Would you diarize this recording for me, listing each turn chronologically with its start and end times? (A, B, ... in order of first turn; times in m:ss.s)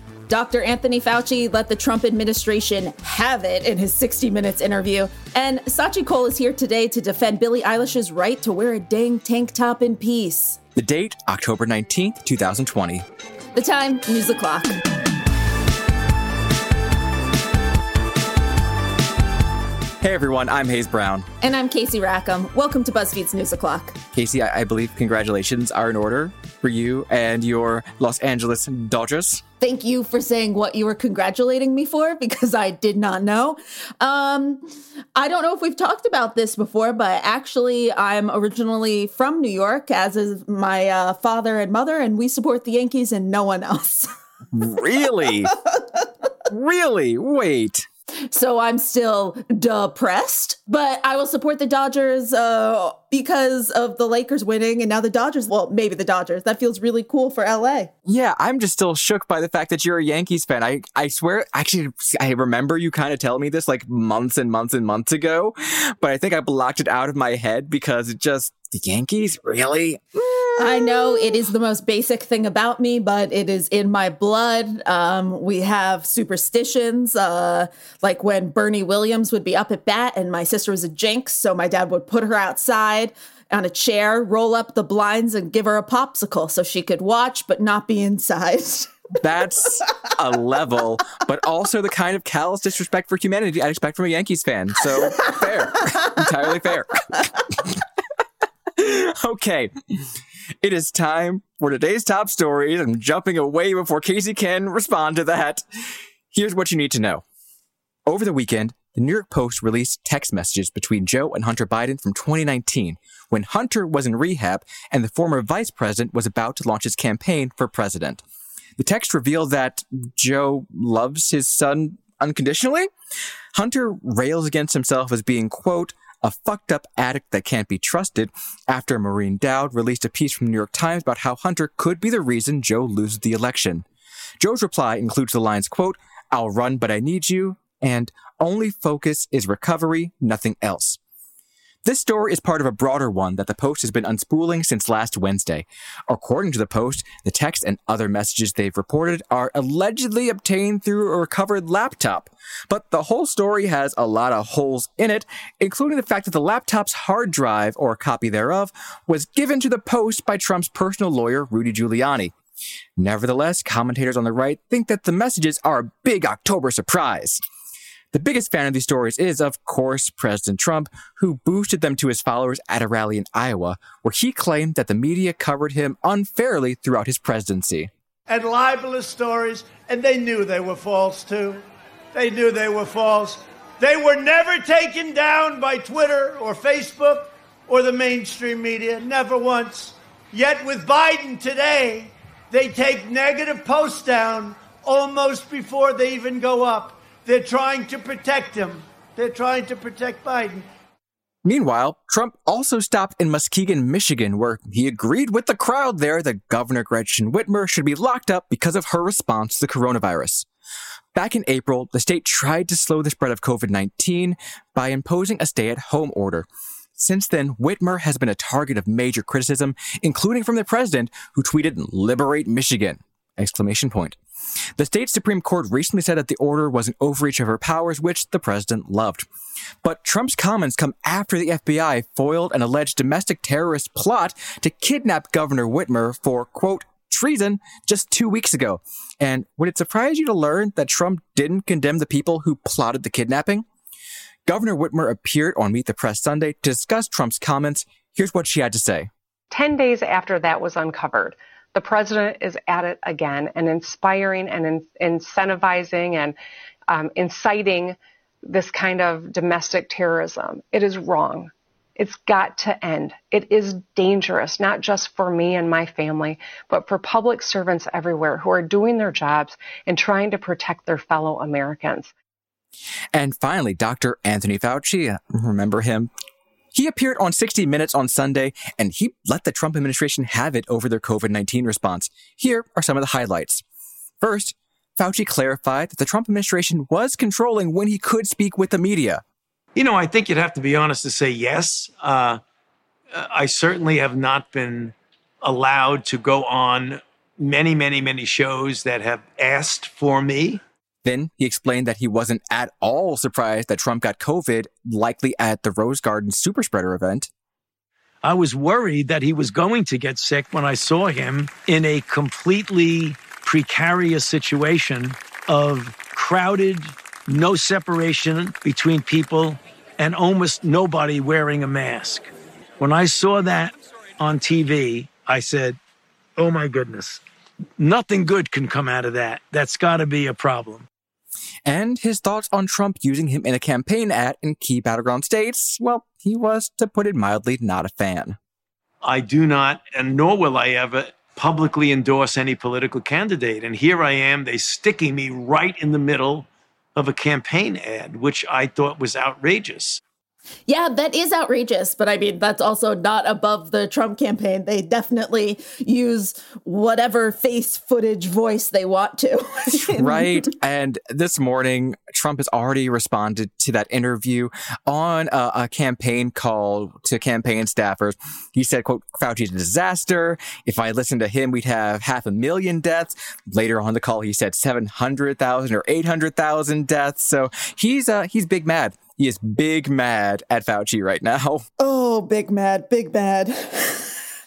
0:00.3-0:10.6 A
0:10.8-0:13.0 B
0:13.5-0:14.8 A
0:20.0-0:21.3 B
0:21.4-0:24.0 A
0:24.1-0:29.4 B
0:29.6-0:44.1 A
0:44.5-0:45.5 B
0:45.4-0:46.0 A
0:46.5-0:47.9 B
0:48.3-0:57.9 A
0:58.1-1:10.0 B
1:10.5-1:28.9 A
1:10.6-1:11.2 B
1:29.2-1:37.8 B
1:38.7-1:39.7 B
1:40.6-1:45.6 B
1:46.3-1:47.2 B
1:48.0-1:58.2 B
1:58.8-2:02.9 B
2:03.5-2:13.8 B
2:14.4-2:21.0 B
2:21.8-2:42.3 B
2:43.0-2:47.4 B
2:48.1-2:57.9 B
2:58.3-3:01.6 C
3:02.1-3:20.6 C
3:21.4-3:30.4 B
3:31.1-3:44.2 B
3:44.8-3:49.2 B
3:49.8-4:03.6 B
4:04.4-4:09.1 B
4:09.5-4:16.4 D
4:16.9-4:32.1 D
4:33.1-4:36.1 B
4:36.7-4:43.6 B
4:44.2-4:49.2 B
4:49.7-4:52.4 E
4:53.1-5:00.6 E
5:01.0-5:07.3 B
5:08.2-5:25.8 E
5:26.4-5:27.2 E
5:27.8-5:30.8 E
5:31.6-5:38.4 B
5:39.0-5:50.0 E
5:50.7-6:00.4 A
5:59.7-6:21.6 B
6:21.8-6:24.2 A